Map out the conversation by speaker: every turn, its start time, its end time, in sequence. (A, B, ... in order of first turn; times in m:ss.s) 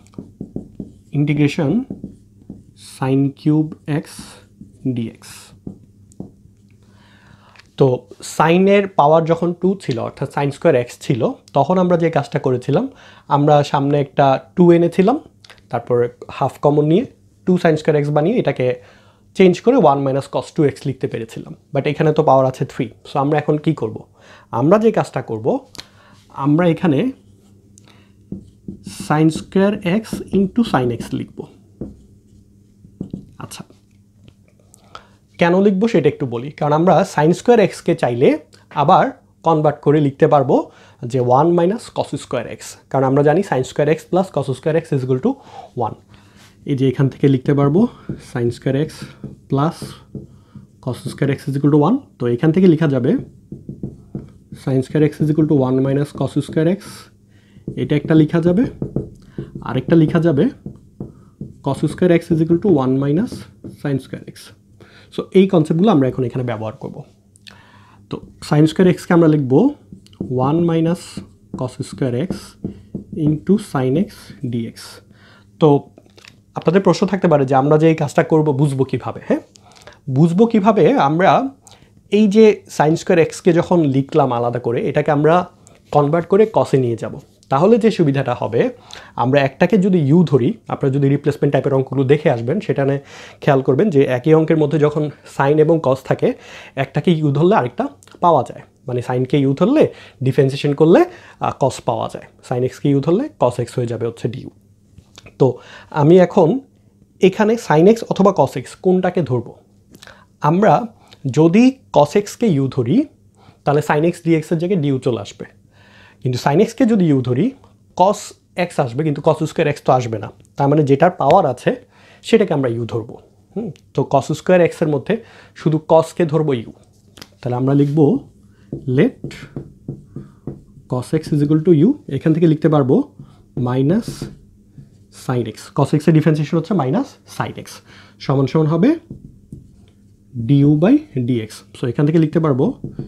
0:01.1-0:01.9 A
0:02.8-0:05.5 A
0:07.8-0:15.2 A
0:15.7-0:18.7 A
0:19.4-0:24.0 A
0:24.6-0:25.6 A
0:26.4-0:27.0 A
0:28.9-0:31.5 A
0:33.4-0:33.7 A
0:35.4-0:46.0 A
0:46.7-0:50.0 A
0:50.8-0:53.2 A
0:54.6-0:57.1 A
0:57.8-0:58.7 A
0:59.6-1:00.5 A
1:01.6-1:04.5 A
1:05.1-1:07.0 A
1:08.1-1:09.7 A
1:10.3-1:12.5 A
1:13.2-1:15.0 A
1:15.6-1:15.8 A
1:16.6-1:19.4 A
1:20.1-1:21.4 A
1:22.1-1:25.4 A
1:25.9-1:28.6 A
1:29.2-1:44.5 A
1:45.4-1:46.6 A
1:47.2-1:49.6 A
1:50.4-1:50.8 A
1:51.3-1:53.0 A
1:53.6-1:55.5 A
1:56.2-2:06.8 A
2:07.4-2:08.2 A
2:08.9-2:09.5 A
2:10.9-2:13.0 A
2:13.6-2:14.3 A
2:15.1-2:19.0 A
2:20.4-2:22.7 A